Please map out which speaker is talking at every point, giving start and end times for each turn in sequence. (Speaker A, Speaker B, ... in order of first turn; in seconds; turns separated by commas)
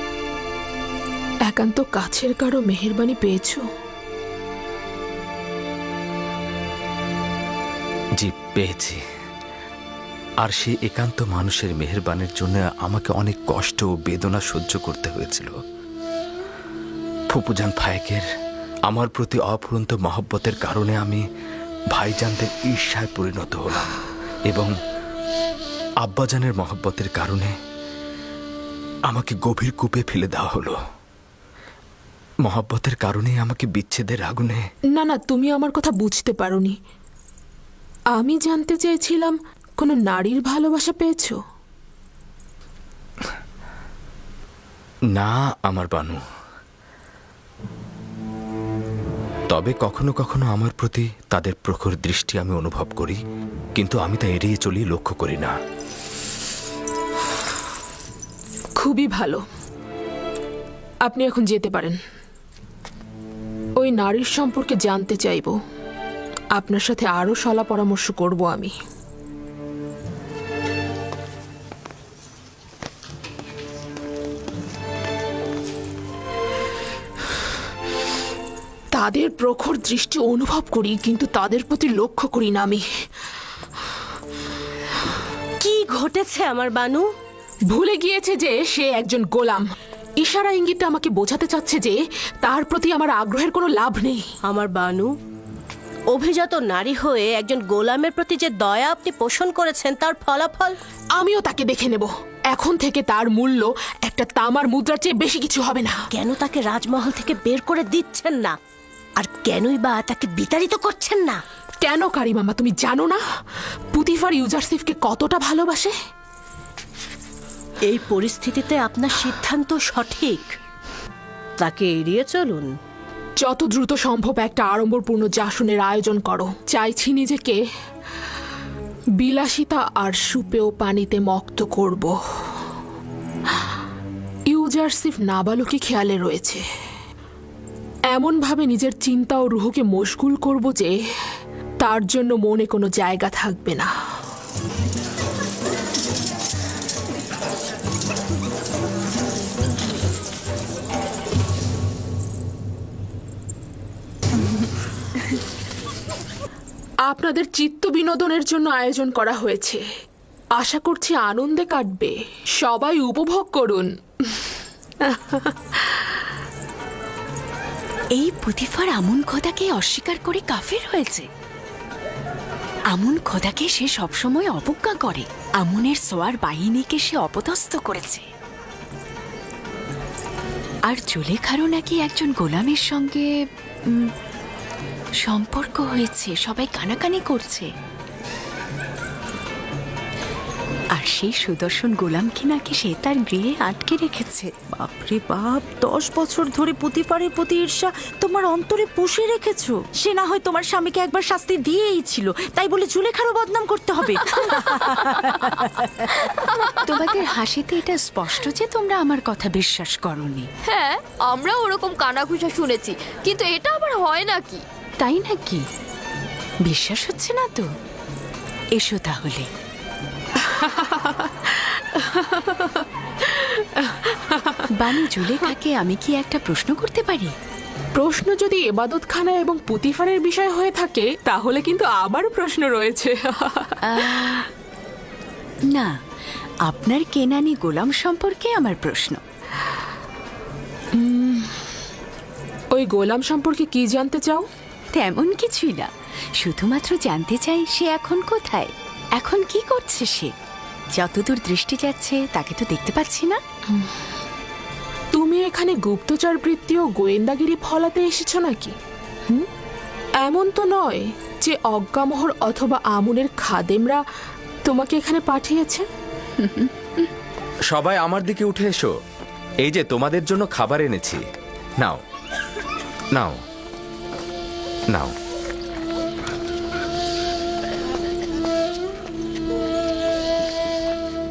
Speaker A: 1.5-3.6, Speaker B: 8.2-9.0, Speaker B: 10.4-15.5, Speaker B: 17.3-18.2, Speaker B: 18.9-21.2, Speaker B: 21.9-23.9, Speaker B: 24.5-24.7, Speaker B: 26.0-27.5, Speaker B: 29.1-30.8, Speaker B: 32.4-34.6, Speaker A: 35.0-36.8, Speaker A: 38.1-41.4, Speaker B: 45.1-46.2, Speaker B: 49.5-53.2, Speaker B: 53.8-55.5, Speaker A: 58.8-59.4, Speaker A: 61.0-62.0, Speaker A: 63.8-65.5, Speaker A: 66.5-68.7, Speaker A: 78.9-82.8, Speaker C: 85.6-87.0, Speaker A: 87.7-89.6, Speaker A: 90.2-94.2, Speaker C: 94.5-95.1, Speaker C: 96.1-100.8, Speaker A: 101.2-106.0, Speaker C: 106.1-108.6, Speaker C: 109.2-111.4, Speaker A: 111.8-113.2, Speaker A: 113.9-115.9, Speaker C: 117.8-120.5, Speaker C: 121.6-122.7, Speaker A: 123.4-127.6, Speaker A: 129.2-132.2, Speaker A: 134.5-136.6, Speaker A: 138.1-140.9, Speaker A: 141.8-143.9, Speaker A: 157.1-159.8, Speaker A: 160.6-164.5, Speaker A: 165.0-166.1, Speaker D: 168.2-171.3, Speaker D: 172.9-178.2, Speaker D: 180.9-184.1, Speaker D: 185.2-187.7, Speaker D: 190.9-194.5, Speaker E: 194.7-205.9, Speaker F: 204.3-205.2, Speaker F: 206.4-207.3, Speaker D: 206.8-210.5, Speaker F: 210.7-214.6, Speaker D: 215.0-215.6, Speaker D: 216.6-217.7, Speaker D: 218.7-219.5, Speaker A: 220.4-224.7, Speaker D: 224.7-227.3, Speaker A: 227.9-234.3, Speaker D: 233.8-234.5, Speaker D: 235.7-235.9, Speaker D: 236.7-239.2, Speaker A: 240.9-241.6, Speaker A: 242.7-244.4, Speaker D: 244.9-250.3, Speaker D: 250.9-253.4, Speaker A: 255.1-258.8, Speaker A: 260.2-264.0, Speaker A: 264.6-265.9, Speaker B: 267.7-268.9, Speaker B: 269.6-271.2, Speaker B: 273.1-273.4